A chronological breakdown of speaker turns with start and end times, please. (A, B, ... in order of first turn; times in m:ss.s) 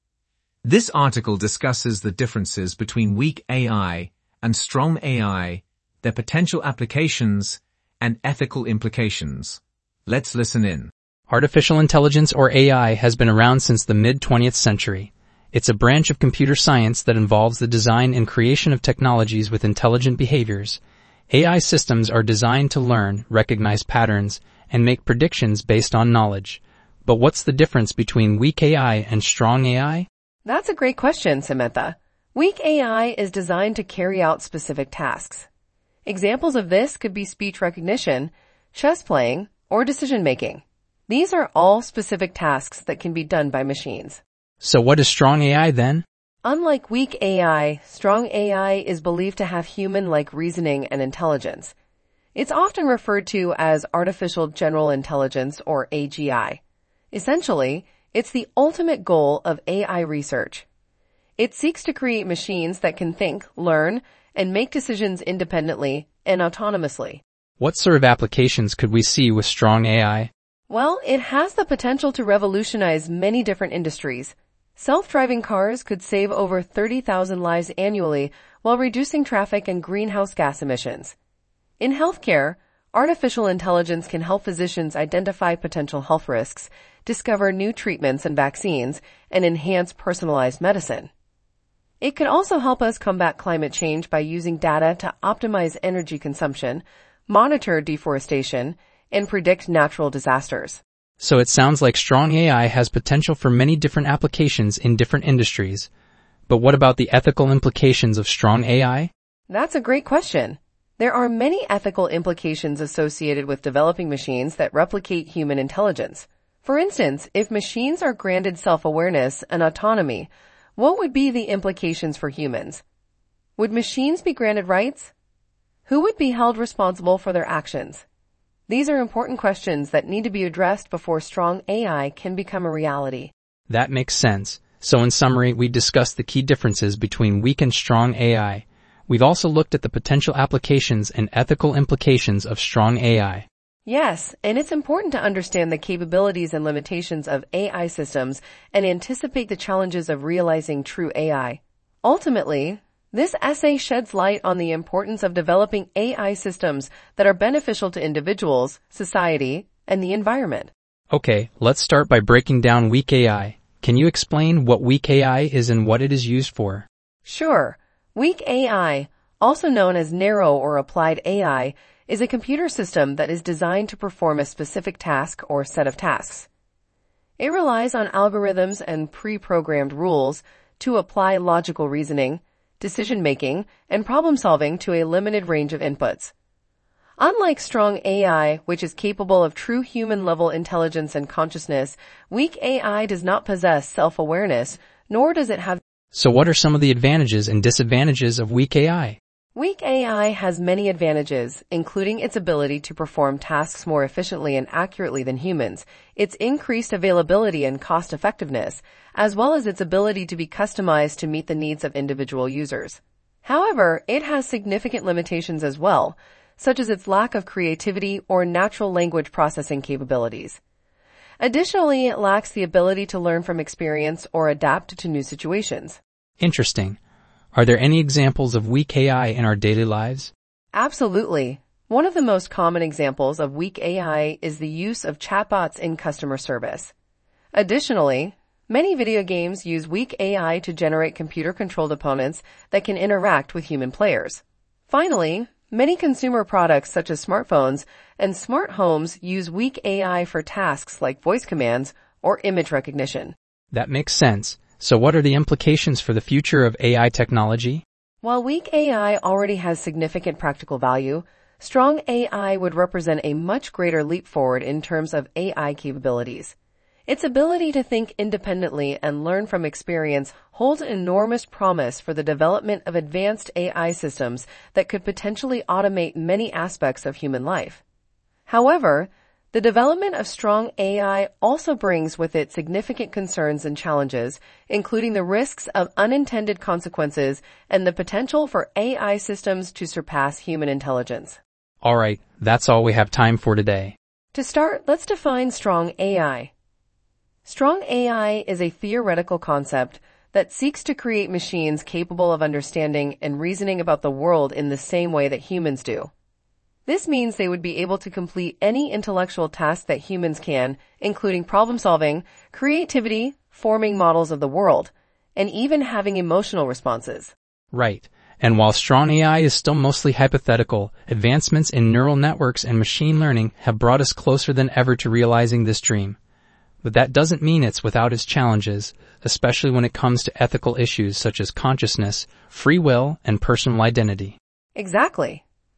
0:00.6-0:10.9 A
0:11.3-0:20.8 B
0:21.3-0:30.1 B
0:30.4-0:35.5 C
0:36.0-0:44.2 C
0:44.6-0:46.0 B
0:46.4-0:51.7 C
0:52.3-0:56.6 C
0:57.1-1:00.7 C
1:01.4-1:07.2 C
1:07.6-1:10.3 B
1:10.7-1:21.1 C
1:21.8-1:31.1 C
1:32.0-1:40.8 C
1:41.2-1:45.9 B
1:46.5-1:49.1 B
1:49.5-2:02.8 C
2:03.6-2:05.1 C
2:05.9-2:08.0 C
2:08.7-2:13.3 C
2:13.7-2:23.5 B
2:23.8-2:40.7 C
2:41.1-2:46.8 B
2:47.2-2:56.5 C
2:57.4-3:06.3 C
3:07.2-3:15.8 C
3:16.1-3:19.2 B
3:19.5-3:40.6 C
3:41.4-3:46.0 C
3:46.4-3:47.0 B
3:47.5-3:50.3 B
3:50.7-3:56.9 C
3:57.5-4:13.3 C
4:13.7-4:17.8 B
4:18.2-4:26.5 C
4:27.1-4:37.8 C
4:38.5-4:51.4 C
4:51.8-4:53.9 B
4:54.3-4:56.5 C
4:57.4-5:06.1 C
5:06.8-5:17.3 C
5:17.7-5:26.2 B
5:26.8-5:34.4 B
5:34.8-5:35.4 C